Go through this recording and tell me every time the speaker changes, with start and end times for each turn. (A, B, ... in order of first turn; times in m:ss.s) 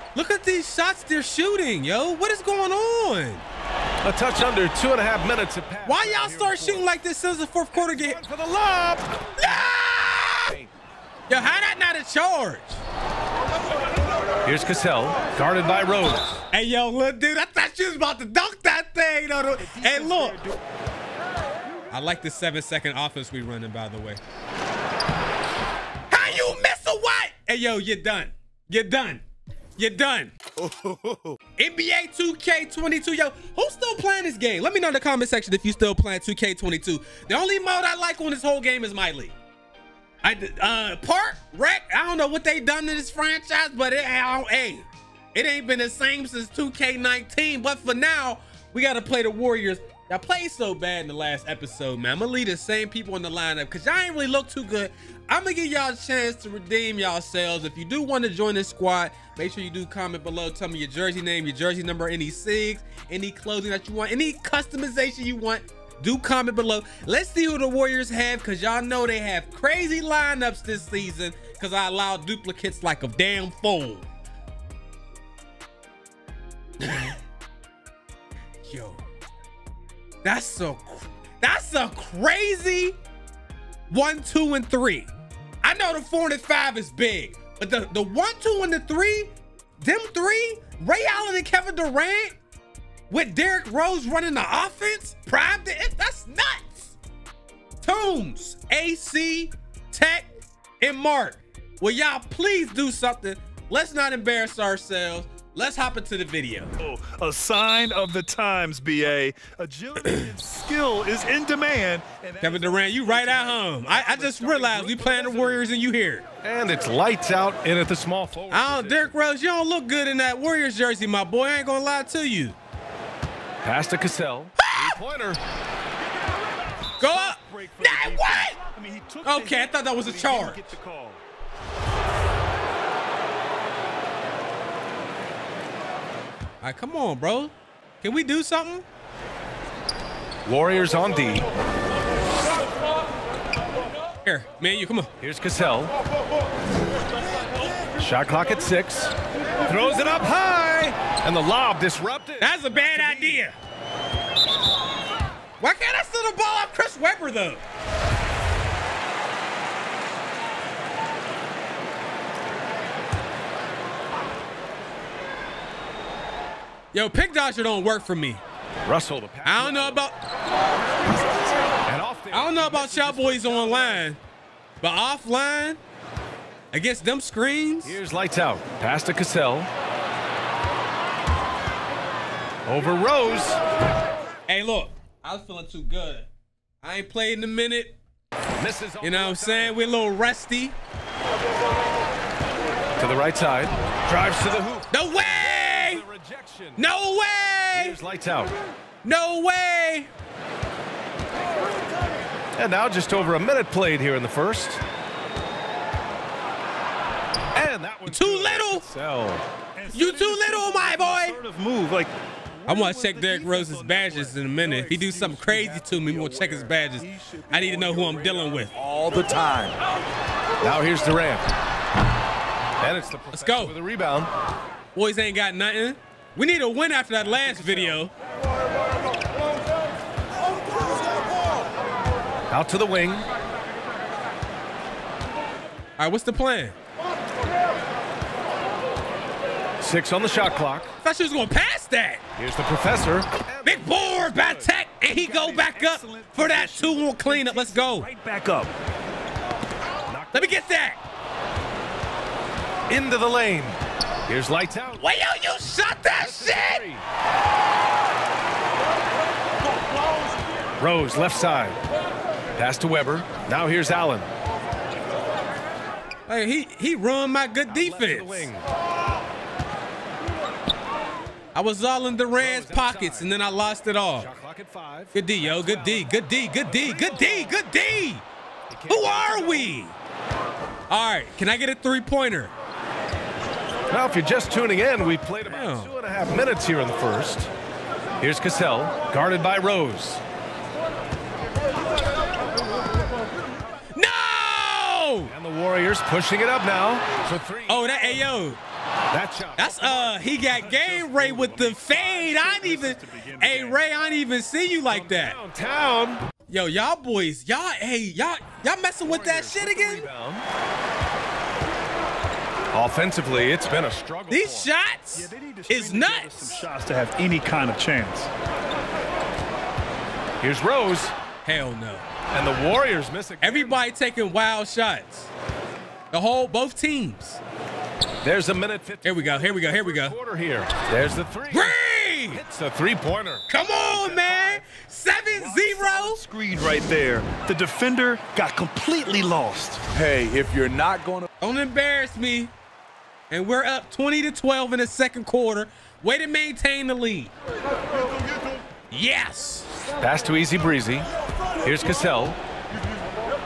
0:00.1-0:03.4 A
0:04.0-0:06.9 B
0:05.8-0:08.2 A
0:07.7-0:09.2 B
0:09.4-0:10.5 A
0:11.3-0:12.8 A
0:14.4-0:16.4 B
0:16.5-0:20.4 A
0:19.6-0:20.6 C
0:21.9-0:24.2 A
0:26.1-0:29.2 A
0:29.8-0:30.3 A
0:30.6-0:31.3 D
0:31.6-0:39.4 A
0:40.2-1:14.1 A
1:16.8-1:17.2 A
1:18.7-1:19.0 A
1:20.2-1:23.0 A
1:23.9-1:25.1 A
1:25.6-1:32.4 A
1:33.1-1:37.0 A
1:37.8-1:46.7 A
1:46.8-1:55.6 C
1:52.4-1:56.2 A
1:56.4-1:59.1 B
1:58.5-2:02.6 A
2:03.6-2:05.4 B
2:04.6-2:05.0 A
2:07.0-2:11.2 C
2:07.0-2:08.6 A
2:09.2-2:10.7 A
2:16.6-2:18.8 A
2:20.5-2:21.5 B
2:24.2-2:25.1 A
2:25.2-2:25.9 B
2:28.0-2:33.4 B
2:32.4-2:33.6 A
2:35.6-2:37.6 A
2:46.9-2:48.4 A
2:48.8-2:50.0 B
2:49.4-2:50.2 A
2:51.8-2:54.1 B
2:52.3-2:54.2 A
2:54.8-2:55.8 A
2:56.7-2:58.0 A
2:57.8-2:59.7 B
3:02.7-3:03.6 B
3:04.5-3:06.3 A
3:06.8-3:08.0 A
3:08.6-3:09.8 B
3:09.0-3:10.8 A
3:13.0-3:16.8 B
3:14.9-3:16.0 A
3:16.8-3:18.0 A
3:17.7-3:18.6 B
3:19.0-3:20.1 A
3:22.6-3:24.8 B
3:27.5-3:29.4 B
3:28.1-3:28.8 A
3:29.8-3:34.8 C
3:29.9-3:31.4 A
3:32.7-3:38.7 A
3:34.7-3:39.8 D
3:40.6-3:41.5 B
3:42.8-3:44.3 B
3:43.3-3:43.8 A
3:45.0-3:48.1 A
3:47.3-3:48.0 B
3:52.5-3:53.3 B
3:56.0-3:56.8 A
3:59.8-4:00.9 B
4:01.0-4:02.2 A
4:02.4-4:04.7 B
4:03.6-4:08.1 A
4:05.1-4:08.7 C
4:10.1-4:10.6 B
4:10.3-4:11.0 A
4:12.9-4:15.0 B
4:15.0-4:16.8 A
4:16.1-4:17.0 B
4:20.8-4:21.8 B
4:22.6-4:24.3 B
4:26.3-4:28.5 A
4:27.7-4:28.6 B
4:31.6-4:34.3 A
4:32.4-4:33.3 B
4:34.2-4:36.1 B
4:35.1-4:38.2 A
4:36.6-4:37.6 B
4:38.7-4:39.8 B
4:38.9-4:39.9 A
4:40.9-4:42.5 A
4:43.9-4:47.5 B
4:45.4-4:45.9 A
4:48.2-4:50.2 B
4:54.0-4:55.3 A
4:55.3-4:58.2 B
4:57.7-4:58.6 A
4:59.1-5:01.7 B
4:59.6-5:05.4 A
5:01.5-5:03.8 C
5:04.9-5:06.2 B
5:06.5-5:10.1 A
5:09.0-5:10.5 B
5:12.7-5:14.7 B
5:14.3-5:16.6 A
5:15.1-5:18.3 C
5:20.4-5:21.1 B
5:21.4-5:22.1 A
5:22.3-5:23.8 B
5:23.4-5:25.3 A
5:26.1-5:27.4 A
5:28.2-5:31.8 B
5:29.0-5:30.2 A
5:31.5-5:32.4 A
5:32.3-5:34.6 B
5:33.5-5:36.2 A
5:35.3-5:39.8 C
5:39.9-5:41.3 D
5:41.4-5:42.5 A
5:43.3-5:47.3 A
5:48.9-5:49.7 A
5:50.0-5:51.1 B
5:51.6-5:52.4 B